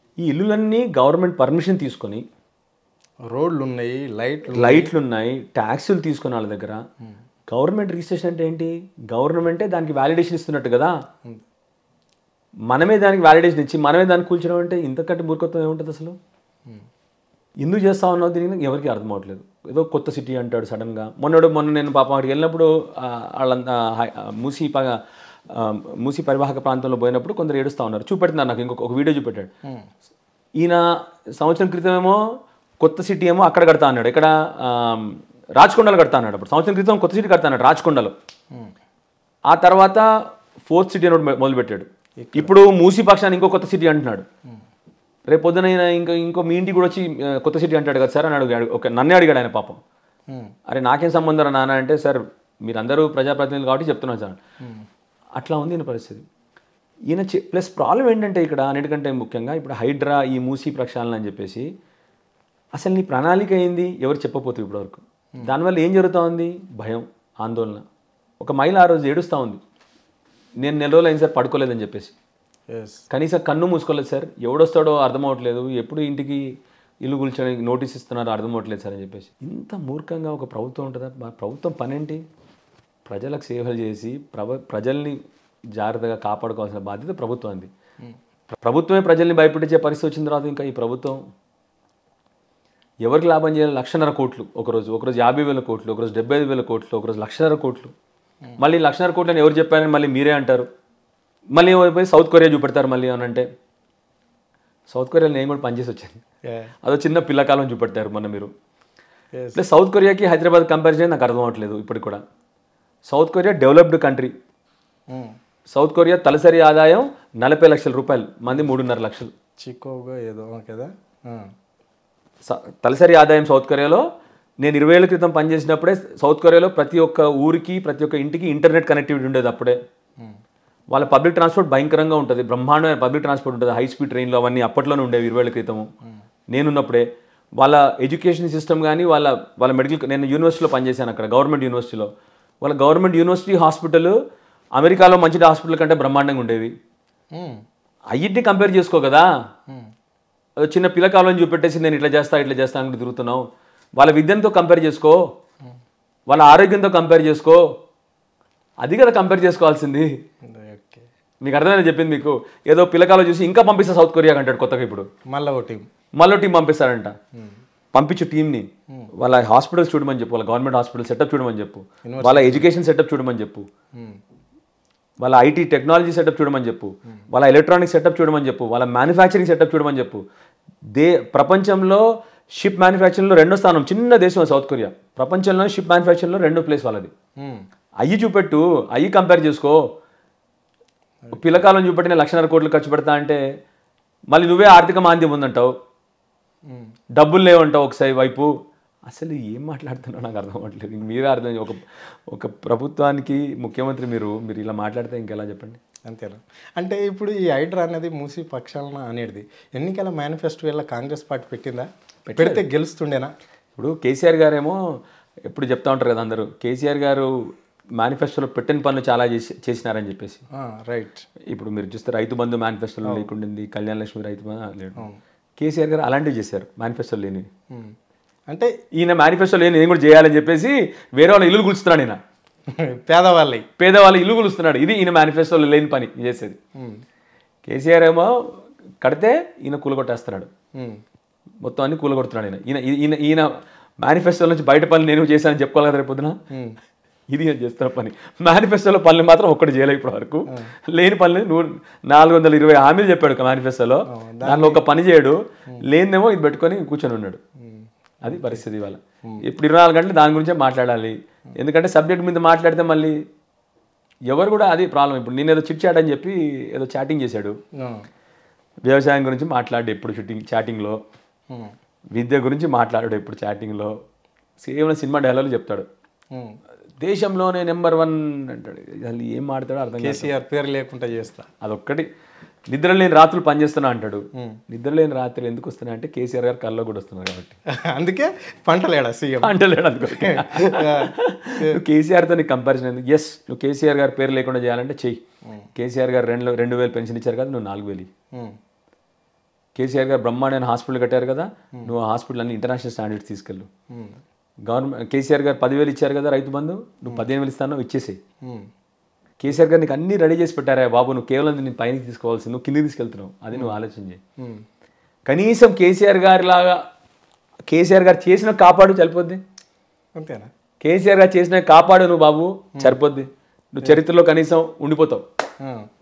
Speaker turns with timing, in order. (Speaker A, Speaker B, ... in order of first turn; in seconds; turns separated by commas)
Speaker A: 0.2-2.2, Speaker B: 3.3-4.9, Speaker A: 4.5-6.8, Speaker A: 7.5-10.9, Speaker A: 12.7-16.2, Speaker A: 17.6-29.5, Speaker A: 30.6-32.2, Speaker A: 32.8-38.1, Speaker A: 39.5-40.1, Speaker A: 40.7-44.2, Speaker B: 42.2-42.5, Speaker A: 45.3-49.8, Speaker A: 50.7-54.4, Speaker A: 55.4-56.2, Speaker A: 57.1-61.7, Speaker A: 62.8-67.8, Speaker A: 68.4-69.6, Speaker A: 70.6-72.1, Speaker B: 72.7-73.0, Speaker A: 73.1-76.5, Speaker A: 77.0-82.2, Speaker A: 83.1-85.2, Speaker A: 85.7-87.7, Speaker A: 88.6-91.2, Speaker A: 93.0-97.9, Speaker A: 98.6-100.7, Speaker A: 101.5-103.5, Speaker A: 104.9-106.2, Speaker B: 106.5-106.7, Speaker A: 106.8-108.5, Speaker B: 109.3-109.6, Speaker A: 109.5-112.2, Speaker A: 113.1-114.3, Speaker A: 115.7-119.3, Speaker B: 119.6-121.5, Speaker A: 122.4-124.0, Speaker A: 124.6-129.8, Speaker A: 130.9-135.9, Speaker A: 136.5-137.1, Speaker A: 137.6-142.1, Speaker A: 142.6-144.2, Speaker A: 144.8-146.7, Speaker B: 147.3-147.6, Speaker A: 148.1-149.3, Speaker A: 150.6-153.4, Speaker A: 154.0-155.2, Speaker A: 156.3-157.6, Speaker A: 158.8-160.1, Speaker B: 160.5-161.0, Speaker A: 161.4-165.1, Speaker B: 165.3-165.9, Speaker A: 166.2-167.2, Speaker A: 167.9-173.7, Speaker B: 172.1-172.7, Speaker A: 175.2-180.2, Speaker A: 180.9-187.1, Speaker A: 188.0-189.8, Speaker A: 191.3-193.4, Speaker A: 194.3-195.7, Speaker A: 197.2-198.5, Speaker A: 199.1-205.8, Speaker B: 206.1-213.3, Speaker A: 212.3-212.6, Speaker A: 213.8-214.8, Speaker A: 215.5-217.3, Speaker A: 218.0-220.4, Speaker B: 220.6-221.2, Speaker A: 221.5-225.1, Speaker B: 223.1-223.3, Speaker A: 225.6-227.5, Speaker A: 228.9-232.2, Speaker B: 232.8-233.7, Speaker A: 233.8-236.6, Speaker A: 237.7-238.3, Speaker A: 239.0-240.5, Speaker A: 241.6-243.5, Speaker A: 244.0-246.4, Speaker B: 246.5-246.8, Speaker A: 247.3-257.4, Speaker B: 254.1-254.8, Speaker B: 257.6-258.6, Speaker A: 258.2-263.2, Speaker A: 264.3-267.6, Speaker A: 268.9-271.0, Speaker A: 272.1-273.9, Speaker A: 274.6-275.9, Speaker A: 277.0-280.3, Speaker B: 280.0-281.5, Speaker A: 281.6-282.1, Speaker A: 282.7-287.6, Speaker B: 287.8-289.6, Speaker A: 289.4-295.2, Speaker B: 290.1-291.8, Speaker A: 295.8-298.1, Speaker A: 299.8-303.7, Speaker B: 303.9-304.2, Speaker A: 304.7-308.2, Speaker B: 308.4-308.7, Speaker A: 309.4-314.2, Speaker A: 315.3-316.8, Speaker A: 317.7-319.4, Speaker B: 320.2-320.5, Speaker A: 320.8-325.2